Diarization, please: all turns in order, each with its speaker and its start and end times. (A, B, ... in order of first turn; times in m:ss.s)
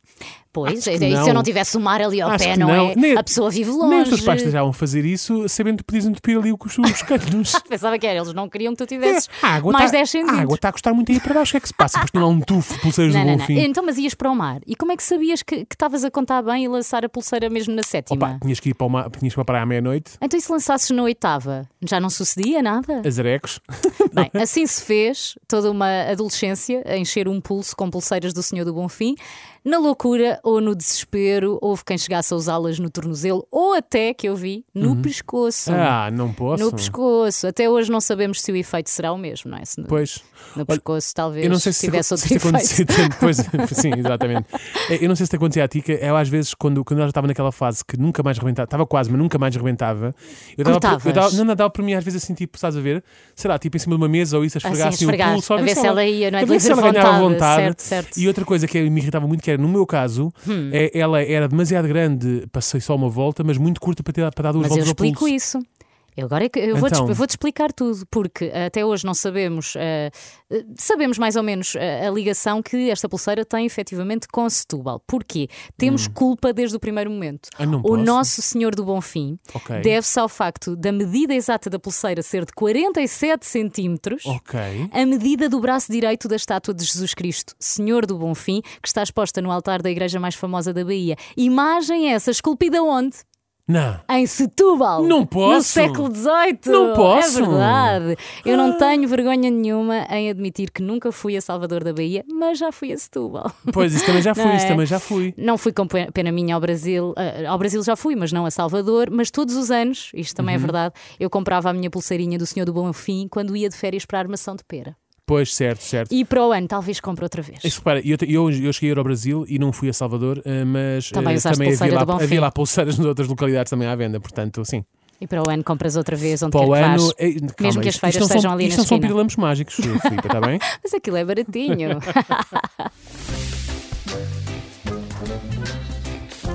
0:00.5-0:04.6 A
0:00.7-0:01.5 B
0:02.2-0:07.6 B
0:07.0-0:10.6 A
0:09.0-0:13.7 B
0:13.0-0:18.4 A
0:18.1-0:20.2 B
0:20.2-0:23.1 A
0:23.0-0:24.4 B
0:24.1-0:36.0 A
0:34.8-0:35.1 B
0:35.7-0:37.0 B
0:36.5-0:44.1 A
0:39.9-0:40.8 B
0:41.4-1:05.3 B
0:50.6-0:51.4 A
0:54.6-0:58.3 A
1:00.4-1:00.8 A
1:04.6-1:05.6 A
1:06.2-1:24.4 A
1:06.7-1:07.2 B
1:15.8-1:16.2 B
1:17.6-1:18.3 B
1:19.6-1:19.9 B
1:24.2-1:24.9 B
1:24.9-1:33.2 A
1:33.7-1:34.0 B
1:34.1-1:55.0 A
1:35.0-1:36.1 B
1:36.7-1:39.0 B
1:43.7-1:45.4 B
1:50.4-1:50.8 B
1:55.3-1:56.1 B
1:56.1-1:57.8 A
1:57.6-2:04.8 B
2:01.1-2:02.5 A
2:05.2-2:09.2 A
2:06.5-2:10.6 B
2:09.8-2:12.9 A
2:11.8-2:12.1 B